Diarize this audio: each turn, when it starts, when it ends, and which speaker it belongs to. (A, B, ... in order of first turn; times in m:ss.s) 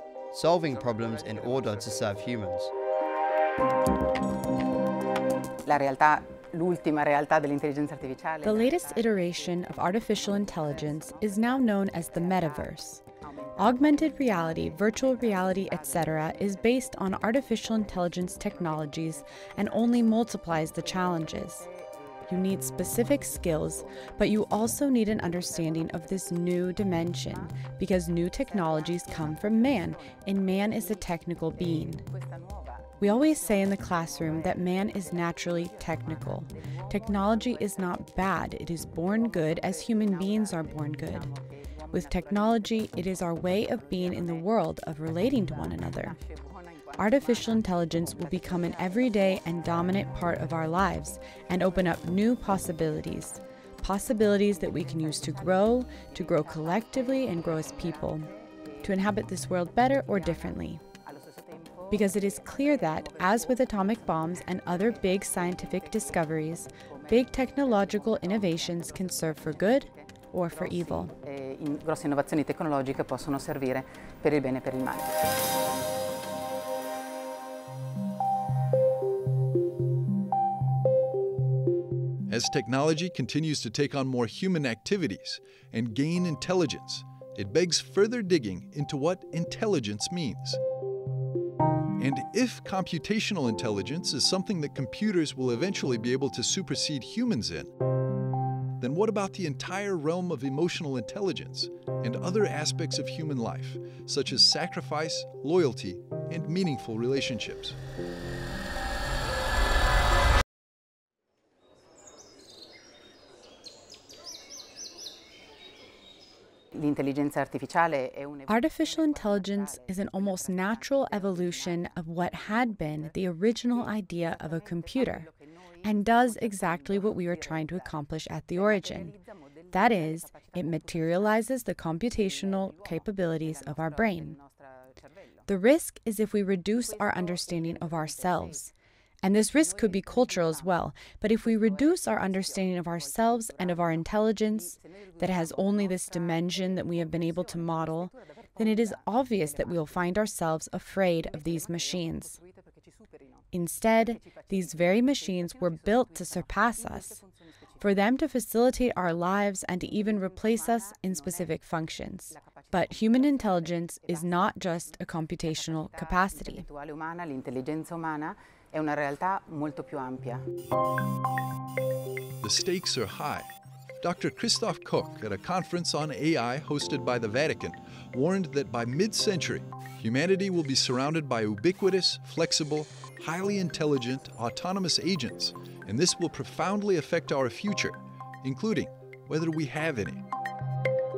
0:00.3-0:02.7 A
0:05.6-0:11.0 B
0:08.4-0:13.0 C
0:13.6-0:21.7 C
0:14.9-0:15.7 B
0:22.2-0:32.0 C
0:28.7-0:29.1 B
0:33.0-0:41.3 C
0:39.4-0:41.5 B
0:41.9-0:46.2 C
0:47.0-0:58.3 C
0:58.8-1:00.8 C
1:01.6-1:02.2 B
1:01.9-1:11.1 C
1:07.9-1:09.8 B
1:10.6-1:15.1 B
1:22.3-1:30.6 D
1:32.0-1:37.7 D
1:38.8-1:47.8 D
1:56.8-1:58.5 B
1:58.5-2:05.3 C
2:05.8-2:09.1 C
2:09.7-2:14.4 C
2:13.8-2:14.4 B
2:15.5-2:32.4 C
2:17.6-2:18.0 B
2:22.2-2:22.8 B
2:25.8-2:26.4 B
2:33.5-2:37.2 C
2:37.8-2:46.6 C
2:45.9-2:50.4 B
2:52.4-2:53.5 D
2:54.0-3:10.2 D